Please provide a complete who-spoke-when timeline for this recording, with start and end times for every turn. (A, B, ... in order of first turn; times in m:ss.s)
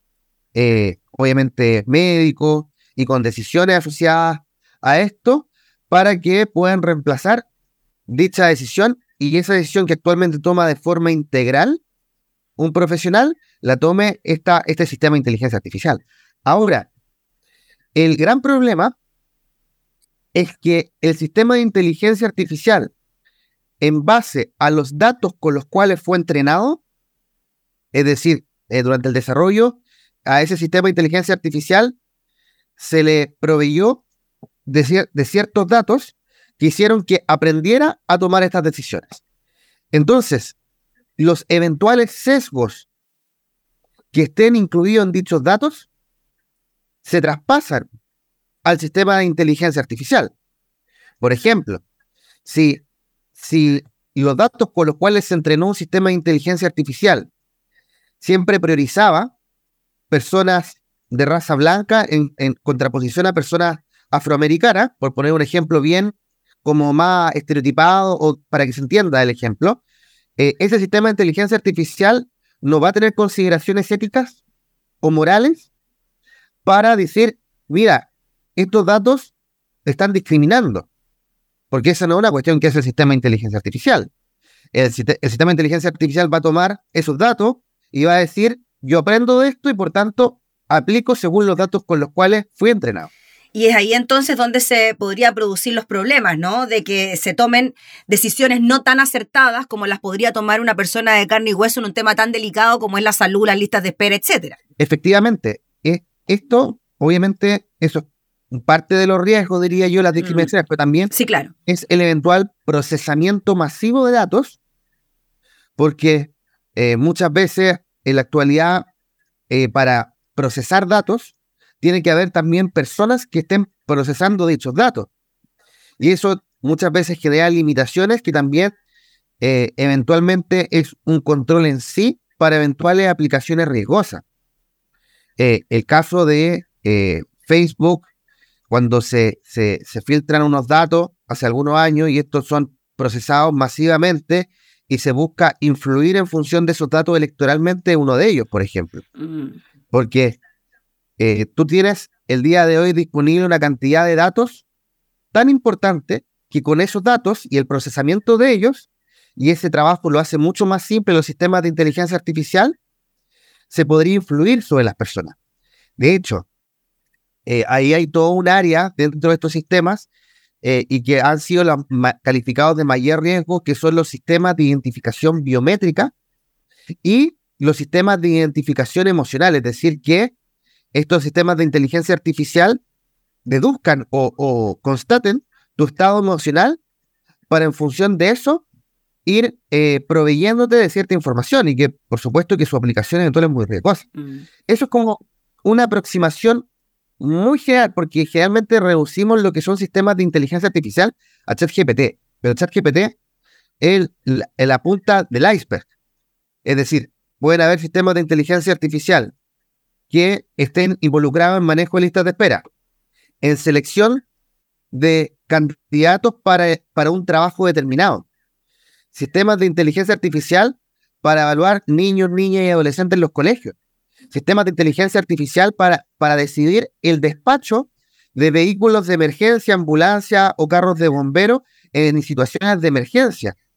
0:00.6-0:07.4 A
0:08.1-0:11.8 A
0:12.6-0:16.9 A
0:18.0-0:18.9 A
0:20.3-0:22.9 A
0:23.8-0:26.8 A
0:27.9-0:32.0 A
0:32.8-0:34.0 A
0:34.7-0:39.2 A
0:39.9-0:40.6 A
0:41.2-0:42.9 A
0:44.1-0:45.9 A
0:47.0-0:47.9 A
0:48.6-0:50.3 A
0:51.2-0:51.8 A
0:52.4-0:52.8 A
0:53.4-0:57.3 A
0:58.2-0:59.3 A
1:00.1-1:09.8 A
1:10.4-1:14.4 A
1:15.0-1:15.7 A
1:16.6-1:19.3 A
1:19.9-1:20.9 A
1:21.7-1:24.1 A
1:24.7-1:33.1 A
1:33.5-1:44.6 B
1:44.8-1:51.1 A
1:50.2-1:50.5 B
1:51.1-1:51.5 B
1:51.7-1:54.6 A
1:55.8-1:58.9 A
1:59.5-2:05.1 A
2:06.0-2:08.7 A
2:09.4-2:14.2 A
2:15.4-2:18.1 A
2:18.7-2:29.0 A
2:29.2-2:29.6 B
2:29.9-2:30.4 A
2:31.2-2:34.6 A
2:35.3-2:42.8 A
2:43.7-2:45.4 A
2:46.0-2:46.5 A
2:47.5-2:50.1 A
2:50.6-2:56.1 A
2:57.0-3:00.3 A
3:00.9-3:02.8 A
3:03.5-3:06.8 A
3:07.5-3:08.6 A
3:09.3-3:14.1 A
3:14.2-3:14.4 B
3:14.7-3:16.6 A
3:17.2-3:23.2 A
3:23.8-3:25.8 A
3:26.6-3:29.3 A
3:30.1-3:32.6 A
3:33.4-3:34.2 A
3:34.9-3:38.2 A
3:39.1-3:43.8 A
3:44.3-3:53.6 A